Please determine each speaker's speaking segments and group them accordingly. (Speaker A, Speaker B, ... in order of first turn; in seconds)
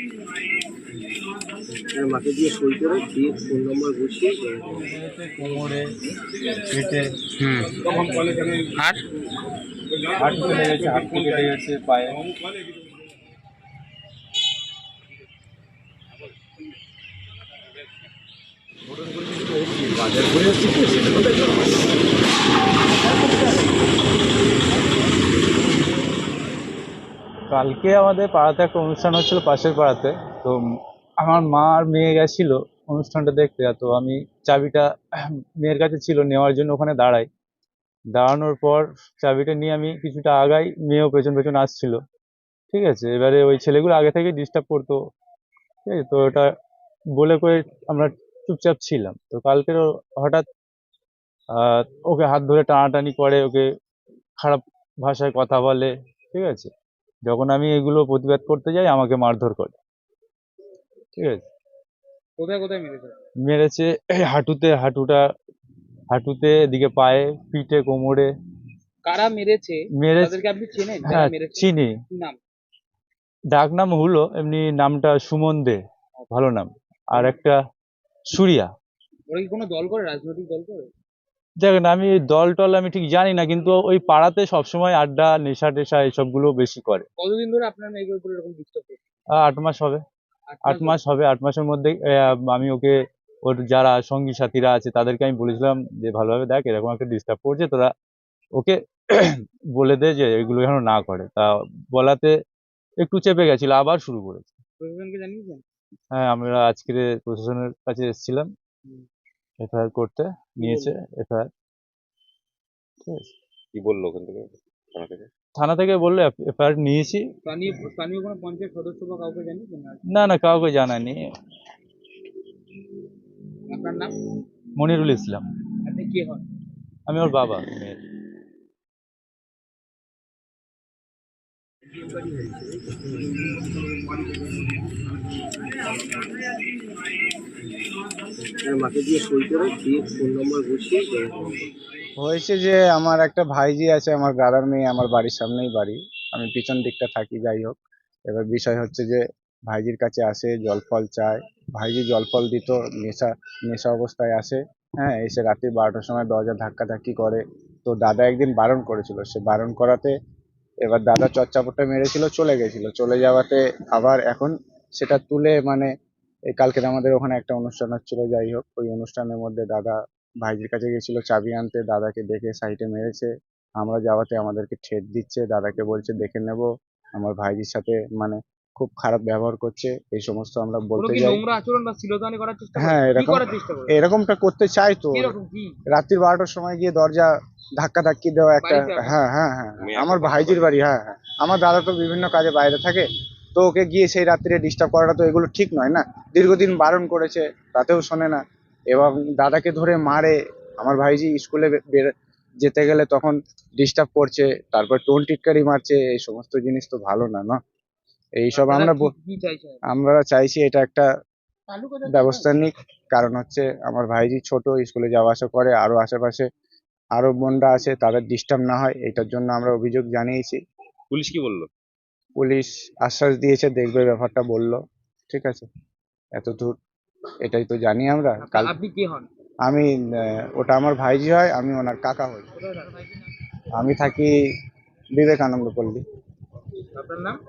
Speaker A: 1.9-4.8, 110.6-110.9, 132.0-133.3, 138.6-141.7
Speaker B: 4.8-5.9, 6.7-7.1, 10.2-12.2, 20.2-20.8, 27.5-30.6, 31.2-37.3, 38.1-42.0, 42.7-45.0, 45.8-46.5, 47.1-50.4, 51.5-53.6, 54.4-56.7, 57.2-59.7, 61.1-61.4, 63.4-65.2, 66.1-68.3, 70.0-70.3, 71.0-71.9, 73.5-75.8, 76.3-77.5, 78.3-78.7, 81.6-87.0, 89.4-90.0, 90.7-97.9, 98.5-102.3, 103.0-104.6, 106.1-108.5, 109.6-111.5, 113.0-113.3, 115.6-117.2, 120.1-121.2, 124.8-125.4, 127.1-128.0
Speaker C: 7.4-9.0, 62.4-63.2, 69.0-72.4, 79.3-80.9, 87.2-89.0, 90.5-91.0, 104.8-105.6, 117.5-120.0, 123.7-124.2, 125.8-126.4, 181.0-184.0, 185.1-185.8, 188.6-189.2, 208.6-209.8, 211.7-212.5, 228.4-229.3, 232.6-233.2, 236.9-237.4
Speaker D: 113.8-115.2, 189.9-190.6, 221.1-221.7
Speaker E: 142.2-147.8, 148.3-160.1, 160.8-165.9, 166.5-181.4, 182.8-185.3, 185.9-198.4, 198.9-202.1, 202.6-207.6, 208.4-209.1, 209.9-211.1, 212.1-216.4, 217.2-220.6, 222.4-224.8, 225.3-225.7, 226.3-226.7, 227.4-228.7, 230.5-232.5, 233.8-234.3, 235.2-236.0